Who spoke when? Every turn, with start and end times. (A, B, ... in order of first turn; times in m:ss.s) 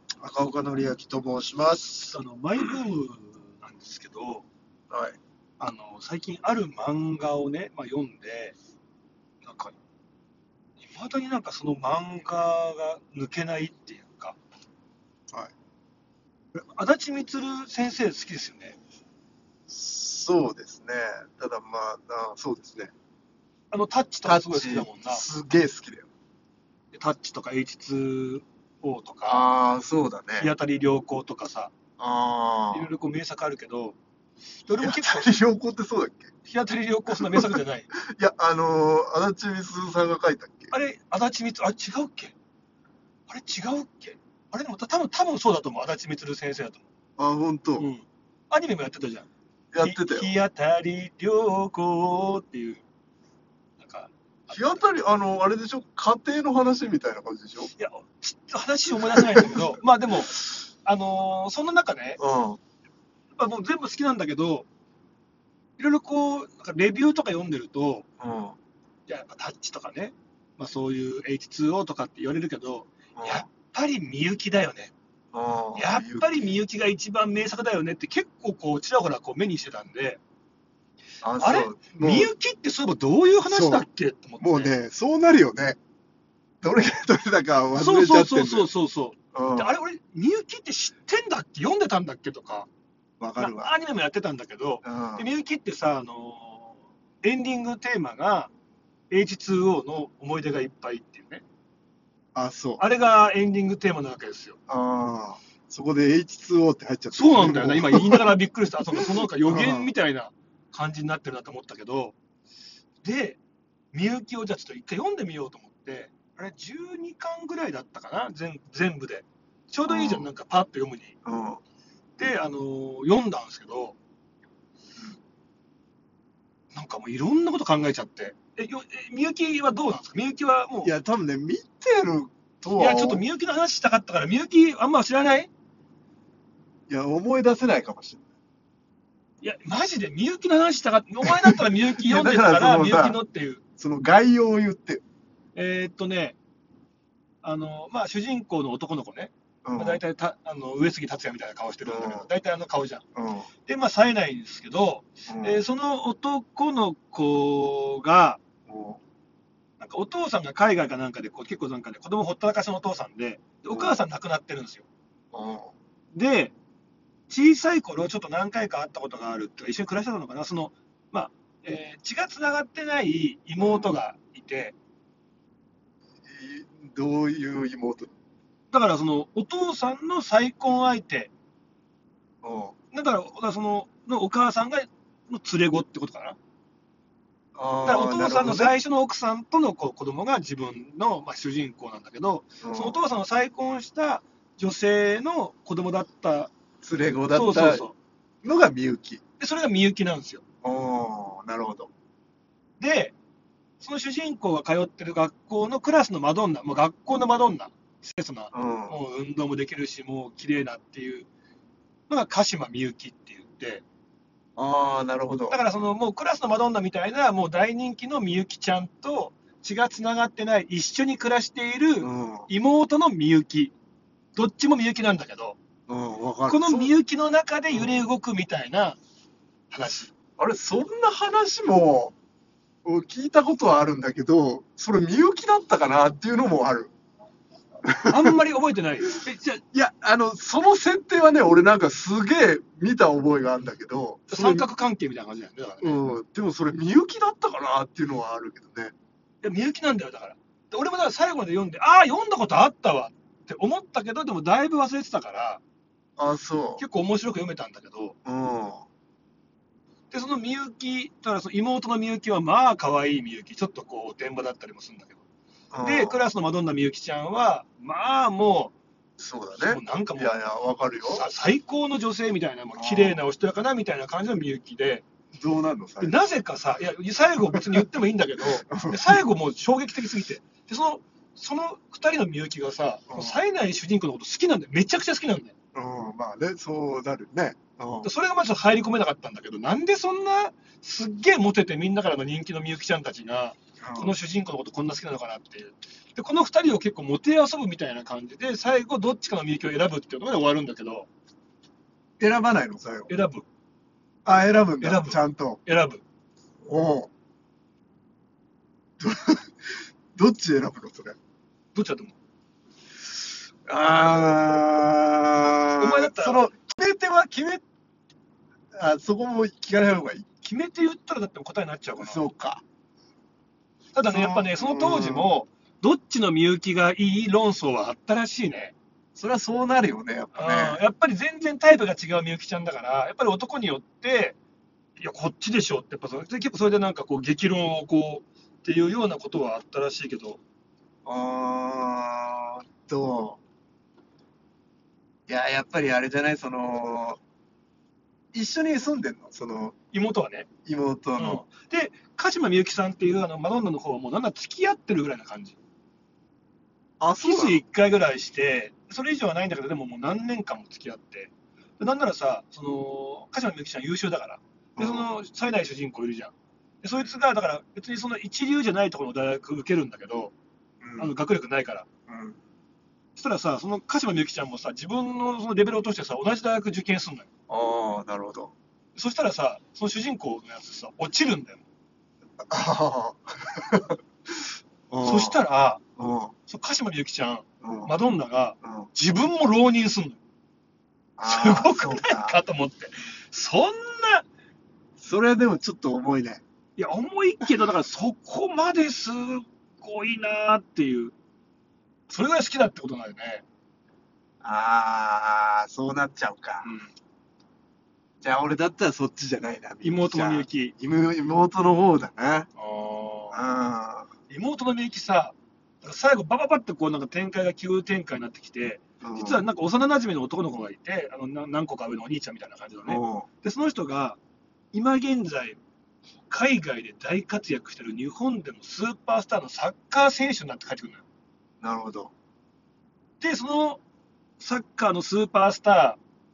0:00.2-0:02.0 A
0:01.8-0:04.5 B
0:04.9-0:05.2 A
0:05.6-0:08.6 B
0:09.4-0:09.8 B
0:10.8-0:14.4 B
0:16.5-0:18.8 B
0:19.7-0:22.9 A
0:23.7-0:25.2 B
0:24.2-0:26.1 A
0:26.9-0:29.5 B
0:29.2-0:30.5 A
0:30.4-0:31.7 B
0:32.0-0:32.9 A
0:32.7-0:34.0 B
0:34.7-0:35.3 B
0:34.8-0:36.3 A
0:36.4-0:37.9 B
0:37.1-0:40.7 A
0:40.7-0:42.4 B
0:43.3-0:46.9 B
0:47.2-0:47.9 A
0:47.8-0:49.3 B
0:49.7-0:50.3 A
0:49.8-0:52.8 B
0:53.8-0:54.9 B
0:54.5-0:57.7 A
0:57.8-1:02.2 B
0:59.1-0:59.6 A
1:02.2-1:02.6 A
1:03.4-1:04.7 B
1:05.8-1:08.1 B
1:08.2-1:08.6 A
1:09.1-1:14.9 B
1:13.2-1:13.5 A
1:15.3-1:16.5 A
1:15.8-1:20.2 B
1:21.2-1:22.3 A
1:21.4-1:24.7 B
1:23.5-1:23.9 A
1:24.4-1:25.8 A
1:26.6-1:28.7 A
1:27.8-1:32.7 B
1:29.3-1:29.8 A
1:33.2-1:33.7 A
1:33.4-1:38.5 B
1:34.8-1:35.3 A
1:39.1-1:41.4 B
1:42.4-1:42.8 A
1:42.8-1:44.6 B
1:44.7-1:48.3 A
1:47.1-1:52.2 B
1:49.4-1:49.9 A
1:53.0-1:53.4 B
1:53.9-2:01.2 B
1:59.9-2:00.3 A
2:01.2-2:01.6 A
2:02.2-2:04.0 B
2:06.7-2:10.9 B
2:10.8-2:13.2 A
2:12.7-2:15.5 B
2:16.9-2:18.3 A
2:19.4-2:23.6 B
2:21.2-2:23.2 A
2:23.8-2:25.0 A
2:25.6-2:26.4 B
2:27.4-2:33.0 B
2:29.6-2:30.0 A
2:31.8-2:32.3 A
2:33.2-2:33.5 A
2:33.7-2:38.4 B
2:35.3-2:35.6 A
2:38.7-2:39.0 A
2:39.8-2:44.9 B
2:43.7-2:44.0 A
2:45.3-2:45.7 A
2:46.1-2:46.5 B
2:47.3-2:54.8 B
2:53.6-2:53.9 A
2:56.2-2:58.1 A
2:58.7-3:01.3 B
3:02.4-3:02.8 A
3:02.9-3:06.4 B
3:07.6-3:08.7 A
3:07.8-3:16.5 B
3:12.6-3:13.0 A
3:16.8-3:17.9 A
3:17.3-3:18.0 B
3:18.4-3:19.2 A
3:19.4-3:20.4 B
3:20.6-3:21.9 A
3:22.8-3:23.2 B
3:23.8-3:31.3 B
3:28.5-3:29.0 A
3:32.1-3:33.8 B
3:34.6-3:35.6 A
3:35.5-3:43.7 B
3:42.0-3:42.5 A
3:44.4-3:45.6 B
3:45.9-3:46.9 A
3:46.5-3:49.0 B
3:47.7-3:48.0 A
3:49.7-3:50.1 B
3:50.4-3:52.2 A
3:52.8-3:56.9 A
3:57.8-3:58.3 A
3:58.1-3:59.6 B
3:59.7-4:04.7 A
4:04.3-4:06.0 B
4:05.8-4:08.9 A
4:09.4-4:15.6 B
4:16.2-4:16.8 A
4:16.8-4:18.2 B
4:18.2-4:18.8 A
4:20.1-4:25.2 B
4:25.7-4:26.2 A
4:25.8-4:28.7 B
4:29.2-4:31.3 A
4:29.6-4:30.4 B
4:31.1-4:35.0 B
4:32.8-4:33.2 A
4:35.4-4:36.2 A
4:36.0-4:45.5 B
4:37.5-4:37.9 A
4:38.5-4:39.2 A
4:43.1-4:43.4 A
4:45.7-4:48.1 A
4:48.0-5:01.1 B
4:53.8-4:54.2 A
5:02.2-5:03.1 A
5:03.1-5:03.4 B
5:04.2-5:05.6 A
5:04.8-5:06.0 B
5:06.6-5:07.1 A
5:09.0-5:11.2 A
5:11.7-5:12.2 B
5:13.7-5:17.6 A
5:15.8-5:16.5 B
5:18.7-5:20.3 A
5:20.4-5:22.2 B
5:22.0-5:22.6 A
5:23.9-5:28.8 B
5:24.0-5:25.3 A
5:29.2-5:30.8 A
5:30.3-5:34.4 B
5:35.0-5:40.4 B
5:41.0-5:43.4 A
5:45.3-5:47.2 A
5:48.3-5:49.8 A
5:49.9-5:50.5 B
5:50.6-5:51.4 A
5:51.2-5:55.6 B
5:57.0-5:57.6 A
5:57.2-6:10.3 B
6:04.8-6:05.1 A
6:10.8-6:11.1 A
6:11.0-6:11.9 B
6:12.1-6:12.4 A
6:13.2-6:17.3 B
6:17.5-6:18.5 A
6:19.0-6:21.6 B
6:22.5-6:24.0 A
6:24.9-6:25.4 A
6:25.0-6:25.8 B
6:26.0-6:26.3 A
6:26.5-6:30.2 B
6:27.6-6:27.9 A
6:28.6-6:28.9 A
6:31.2-6:32.4 A
6:31.2-6:34.3 B
6:35.0-6:36.4 A
6:36.8-6:41.2 B
6:42.1-6:43.4 B
6:44.4-6:46.7 A
6:46.6-6:46.9 B
6:48.2-6:52.5 A
6:49.8-6:50.7 B
6:52.6-6:53.4 B
6:53.3-6:54.1 A
6:54.3-7:04.2 B
6:59.0-6:59.5 A
7:02.9-7:03.3 A
7:04.7-7:05.6 B
7:06.3-7:11.0 B
7:11.6-7:12.1 A
7:13.2-7:13.8 B
7:14.4-7:16.0 B